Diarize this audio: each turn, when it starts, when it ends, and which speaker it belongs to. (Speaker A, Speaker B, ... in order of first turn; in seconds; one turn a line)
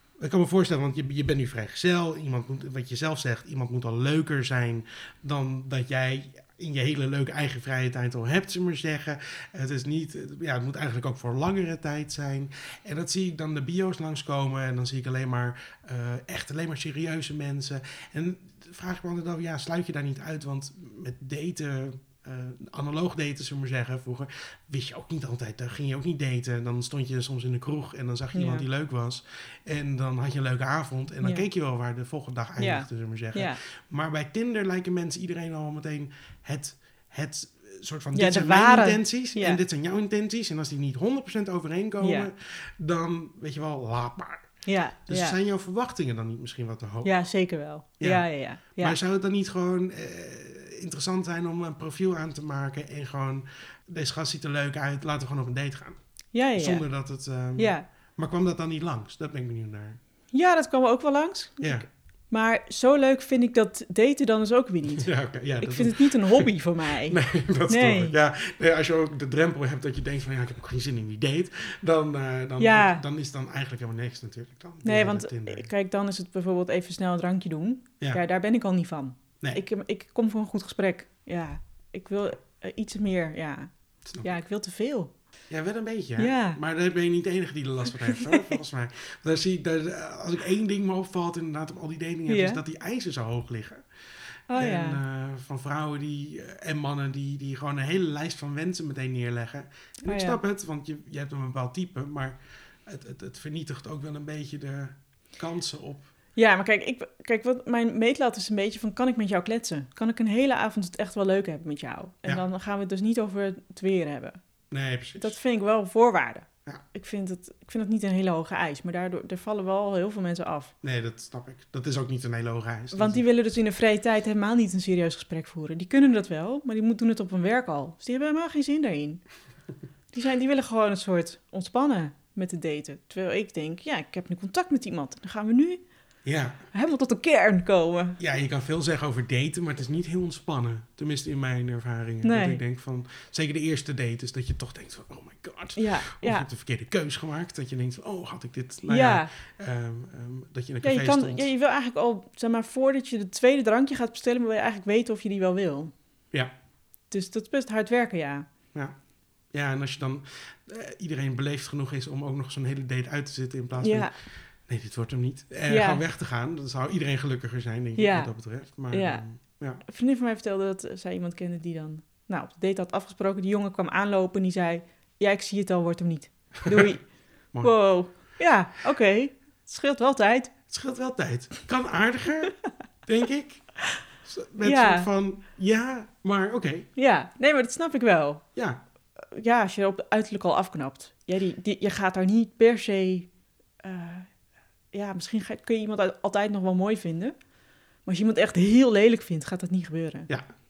Speaker A: 0.2-44.5
Speaker B: 28.3-28.6
Speaker B: 32.6-33.6
Speaker B: 38.1-39.6
Speaker B: 42.0-42.3
Speaker B: 44.6-45.4
Speaker A: 45.1-47.1
Speaker B: 47.0-49.0
Speaker A: 48.0-48.3
Speaker A: 48.8-56.0
Speaker B: 56.3-56.8
Speaker A: 56.6-60.0
Speaker B: 57.6-57.9
Speaker B: 60.3-68.2
Speaker A: 61.6-61.9
Speaker A: 65.0-66.5
Speaker A: 67.1-75.7
Speaker B: 72.6-73.0
Speaker B: 74.8-83.7
Speaker B: 84.2-85.1
Speaker A: 85.5-93.8
Speaker B: 86.2-86.6
Speaker B: 92.3-92.6
Speaker B: 94.5-95.0
Speaker A: 94.5-106.1
Speaker B: 100.0-100.4
Speaker B: 106.3-114.4
Speaker A: 114.7-115.4
Speaker B: 115.2-120.7
Speaker A: 120.8-123.2
Speaker B: 122.9-129.2
Speaker B: 130.1-135.8
Speaker A: 136.2-136.7
Speaker B: 136.7-138.2
Speaker A: 138.2-151.5
Speaker B: 142.2-142.6
Speaker B: 145.8-146.5
Speaker B: 148.9-149.3
Speaker B: 150.8-155.9
Speaker B: 157.1-158.5
Speaker A: 159.5-164.1
Speaker B: 163.8-164.1
Speaker A: 164.7-169.8
Speaker B: 165.7-166.0
Speaker B: 168.0-168.3
Speaker B: 168.9-169.2
Speaker B: 169.8-177.1
Speaker B: 177.6-180.6
Speaker A: 180.7-183.7
Speaker A: 184.2-186.9
Speaker B: 184.6-185.1
Speaker B: 187.0-188.4
Speaker B: 189.2-193.3
Speaker B: 193.8-194.3
Speaker B: 194.9-197.3
Speaker B: 198.1-200.3